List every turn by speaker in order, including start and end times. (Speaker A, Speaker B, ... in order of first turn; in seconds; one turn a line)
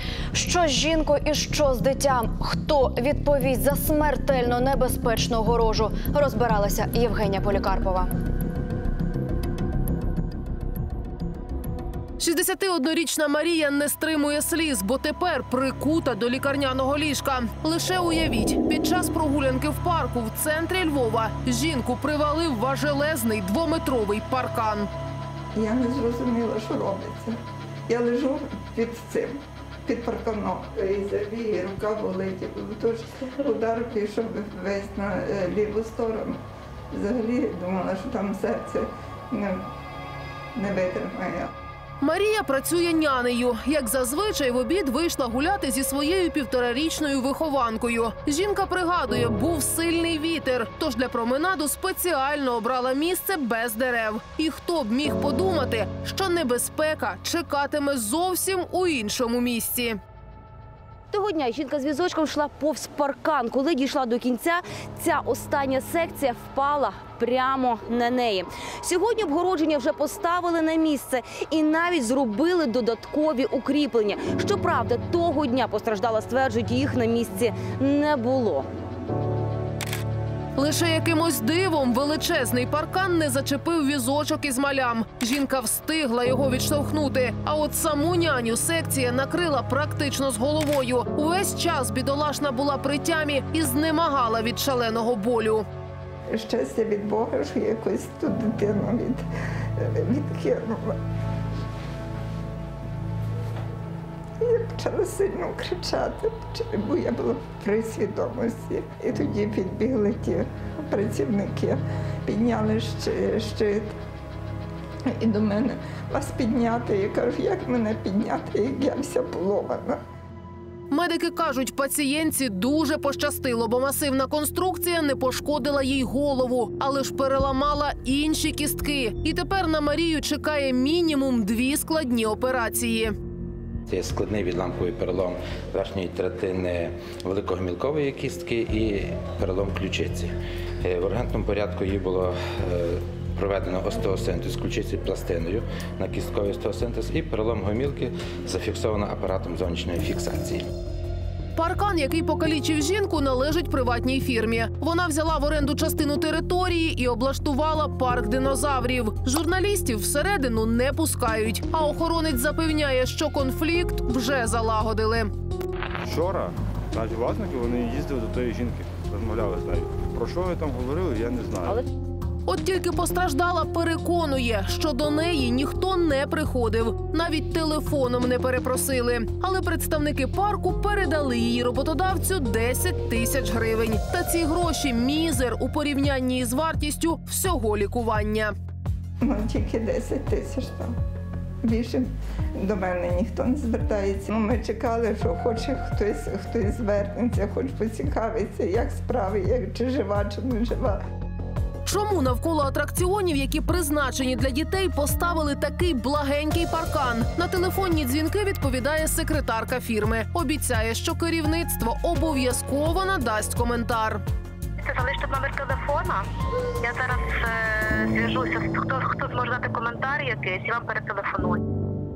Speaker A: 0.3-8.1
Speaker B: 12.2-24.9
Speaker C: 25.6-27.4
Speaker C: 27.9-36.4
Speaker C: 36.9-39.7
Speaker C: 40.5-41.5
Speaker B: 42.0-60.0
Speaker D: 61.1-78.7
Speaker B: 80.6-95.7
Speaker C: 96.3-99.2
Speaker C: 99.8-101.0
Speaker C: 104.4-114.0
Speaker C: 115.1-120.0
Speaker B: 120.9-133.2
Speaker E: 133.9-150.7
Speaker B: 151.6-165.3
Speaker F: 166.1-171.8
Speaker B: 172.5-188.5
Speaker C: 189.2-190.9
Speaker C: 191.6-201.0
Speaker B: 201.9-214.2
Speaker G: 214.8-216.3
Speaker G: 216.8-221.7